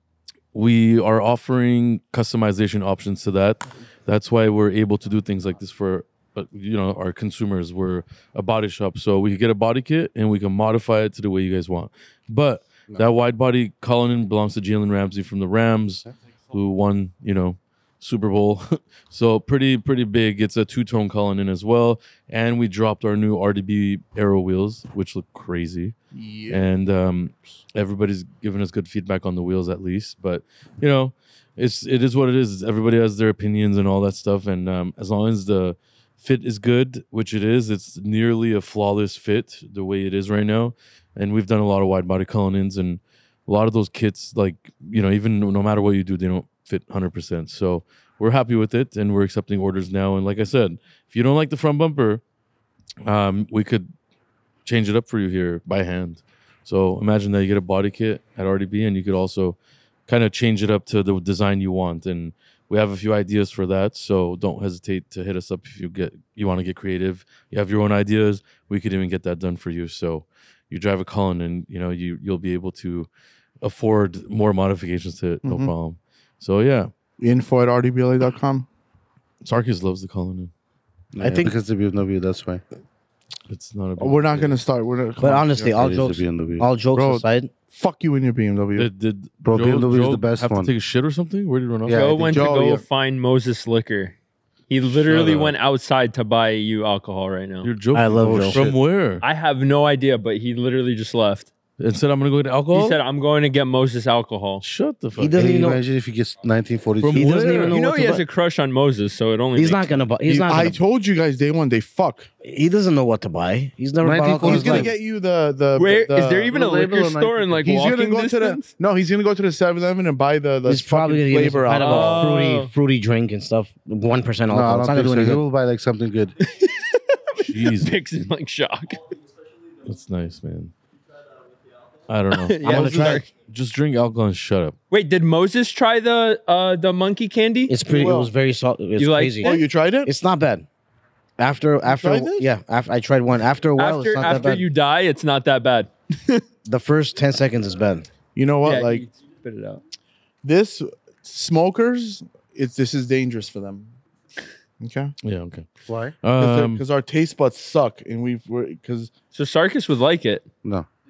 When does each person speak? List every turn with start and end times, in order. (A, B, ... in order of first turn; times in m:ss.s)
0:00.5-0:25.9 A
0:26.1-0:26.6 B
0:26.5-0:52.2 A
0:53.0-0:53.9 A
0:54.6-0:59.6 A
1:00.1-1:13.1 A
1:13.6-1:16.9 A
1:15.4-1:15.7 B
1:17.2-1:18.6 B
1:19.4-1:20.5 A
1:21.1-1:22.6 C
1:21.2-1:21.5 D
1:23.5-1:24.6 A
1:24.0-1:25.8 B
1:25.2-1:27.5 D
1:25.8-1:26.7 C
1:26.9-1:28.9 B
1:28.8-1:32.3 A
1:29.4-1:30.7 C
1:31.8-1:32.5 C
1:31.9-1:34.1 E
1:32.2-1:32.8 B
1:34.7-1:37.7 E
1:34.9-1:35.6 A
1:37.6-1:39.2 A
1:37.9-1:38.8 D
1:38.2-1:38.6 C
1:39.2-1:41.5 E
1:41.8-1:43.0 A
1:42.7-1:44.6 E
1:44.6-1:45.4 A
1:45.2-1:45.8 D
1:45.3-1:47.5 C
1:47.0-1:47.8 A
1:47.1-1:48.2 D
1:47.7-1:50.1 E
1:49.5-1:50.8 D
1:50.3-1:52.3 B
1:52.4-1:54.9 D
1:54.0-1:54.9 C
1:54.4-1:56.5 B
1:55.7-1:58.7 E
1:56.5-1:57.6 C
1:57.6-2:02.3 B
2:00.6-2:05.4 D
2:01.8-2:02.7 E
2:04.5-2:06.3 C
2:06.4-2:09.1 E
2:07.4-2:07.9 A
2:09.8-2:10.7 A
2:12.1-2:14.7 A
2:12.3-2:13.3 E
2:12.6-2:13.2 B
2:14.9-2:17.8 E
2:17.7-2:20.6 D
2:17.9-2:18.3 B
2:19.0-2:19.6 E
2:19.4-2:20.1 B
2:21.4-2:24.7 D
2:21.8-2:22.5 B
2:23.7-2:26.4 E
2:26.6-2:28.0 D
2:28.3-2:29.0 B
2:28.6-2:29.8 E
2:30.4-2:33.9 B
2:34.8-2:35.1 B
2:35.2-2:35.7 A
2:35.8-2:36.2 C
2:36.2-2:36.8 A
2:36.4-2:39.1 B
2:39.3-2:40.4 E